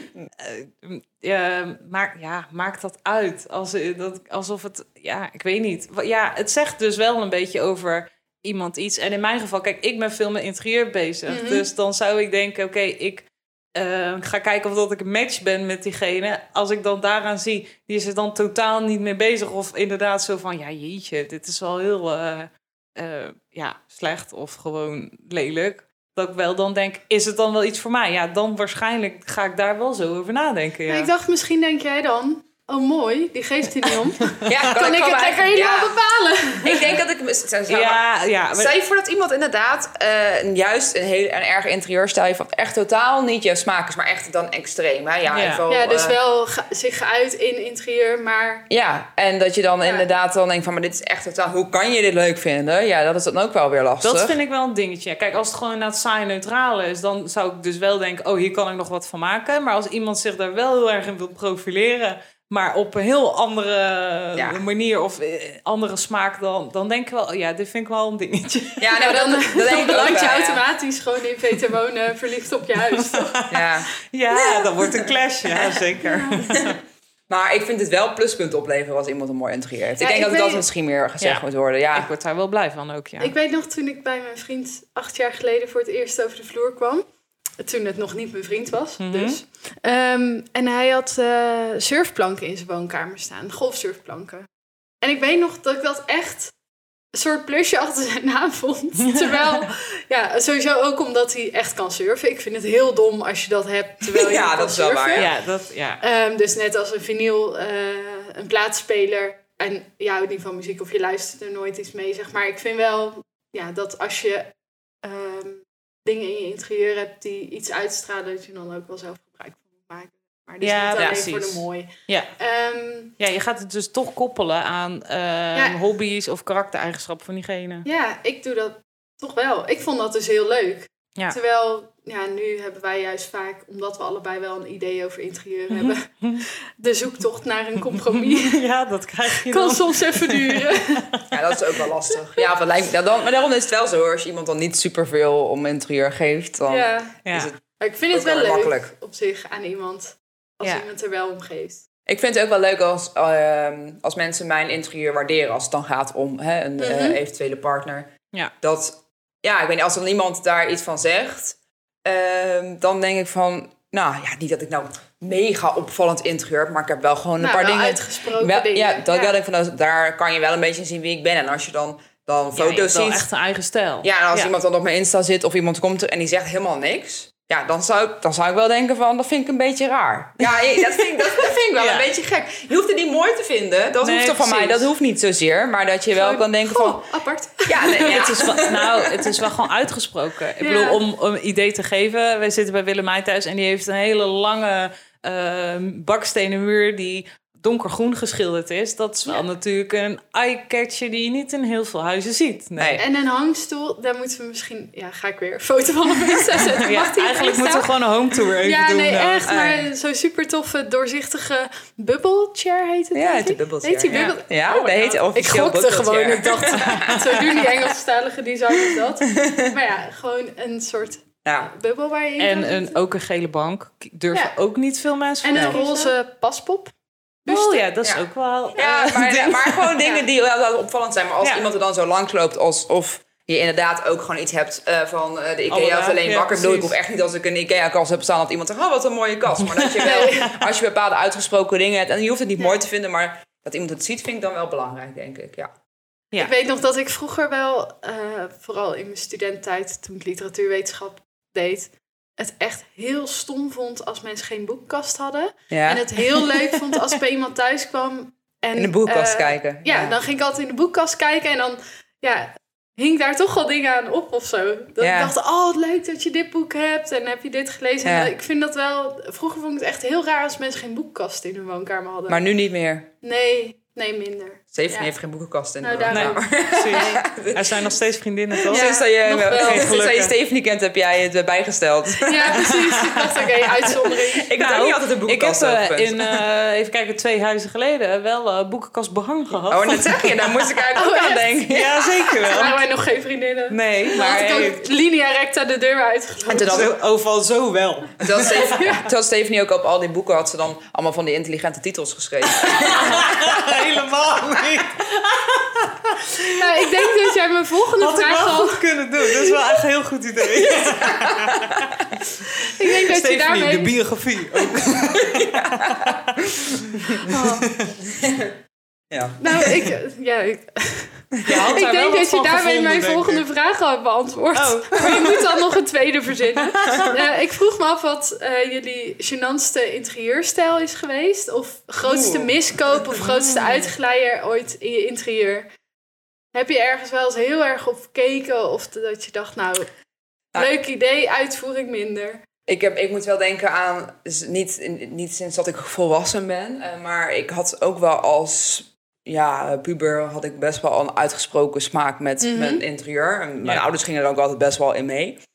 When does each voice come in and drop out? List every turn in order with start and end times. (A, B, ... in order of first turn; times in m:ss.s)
0:00.4-0:31.1 A
0:11.3-0:11.7 B
0:30.9-0:36.9 B
0:34.4-0:35.9 C
0:36.6-0:46.2 C
0:37.7-0:38.7 A
0:45.3-0:45.6 A
0:45.7-0:48.7 B
0:48.7-0:54.4 C
0:54.0-1:08.9 A
1:04.4-1:04.6 C
1:08.8-1:10.6 C
1:08.9-1:13.5 B
1:12.9-1:16.8 A
1:13.5-1:13.9 C
1:14.3-1:14.8 B
1:16.0-1:16.6 B
1:17.3-1:22.1 C
1:20.0-1:20.6 B
1:21.2-1:23.3 A
1:23.2-1:27.0 B
1:27.6-1:34.5 B
1:29.0-1:29.4 A
1:35.0-1:36.5 B
1:37.1-1:45.3 B
1:39.0-1:39.6 A
1:44.1-1:45.3 C
1:45.1-1:46.0 A
1:46.0-2:03.1 B
2:00.6-2:02.3 A
2:03.2-2:07.8 A
2:07.8-2:18.6 B
2:15.7-2:16.4 A
2:17.9-2:21.2 A
2:19.3-2:21.1 B
2:21.3-2:27.6 C
2:26.6-2:27.2 B
2:27.2-2:27.5 A
2:27.8-2:31.8 B
2:28.1-2:28.9 C
2:32.1-2:53.3 C
2:36.8-2:37.2 B
2:47.4-2:49.3 B
2:52.5-2:54.5 A
2:54.0-3:07.0 C
3:01.7-3:02.1 A
3:04.0-3:04.8 A
3:06.1-3:08.4 B
3:07.6-3:09.3 C
3:08.0-3:23.0 A
3:10.6-3:11.0 B
3:22.8-3:23.0 C
3:23.0-3:27.9 B
3:26.7-3:29.4 A
3:28.6-3:43.0 B
3:29.4-3:29.9 C
3:33.1-3:37.6 C
3:34.1-3:34.3 A
3:36.8-3:37.2 A
3:38.9-3:39.7 C
3:41.4-3:41.7 C
3:42.4-3:46.1 A
3:45.4-3:46.9 B
3:45.5-3:45.8 C
3:47.4-3:47.9 B
3:47.5-3:49.9 A
3:48.0-4:05.7 C
3:51.4-3:51.6 A
3:55.7-3:56.9 A
3:59.7-4:00.5 A
4:00.0-4:00.5 B
4:06.4-4:32.4 B
4:15.7-4:16.3 C
4:18.8-4:20.2 C
4:25.0-4:25.3 C
4:28.0-4:28.3 C
4:32.3-4:33.1 C
4:33.2-4:35.1 B
4:34.7-4:37.9 C
4:35.8-4:36.4 B
4:36.1-4:38.9 A
4:38.6-4:43.0 C
4:38.7-4:39.9 B
4:39.5-4:40.3 A
4:42.2-4:44.5 B
4:43.8-4:46.4 C
4:44.6-4:50.3 A
4:49.7-4:52.2 C
4:50.9-4:51.5 B
4:51.7-4:52.8 A
4:52.5-4:56.9 B
4:53.7-4:54.8 A
4:54.1-4:54.7 C
4:56.5-4:56.9 C
4:56.6-4:58.8 A
4:58.2-5:03.7 C
4:58.4-4:59.0 B
5:02.7-5:06.4 A
5:06.4-5:09.8 B
5:08.0-5:11.9 A
5:10.6-5:12.0 C
5:12.4-5:13.9 B
5:13.1-5:17.9 A
5:14.9-5:17.2 C
5:17.3-5:17.7 B
5:18.1-5:18.5 C
5:19.1-5:19.9 C
5:19.4-5:35.7 B
5:21.4-5:21.7 C
5:21.4-5:23.4 A
5:24.5-5:25.4 A
5:26.8-5:27.1 A
5:32.0-5:32.5 C
5:33.4-5:33.8 A
5:36.5-5:39.9 B
5:40.5-5:42.4 B
5:42.7-5:55.4 C
5:52.4-5:52.8 B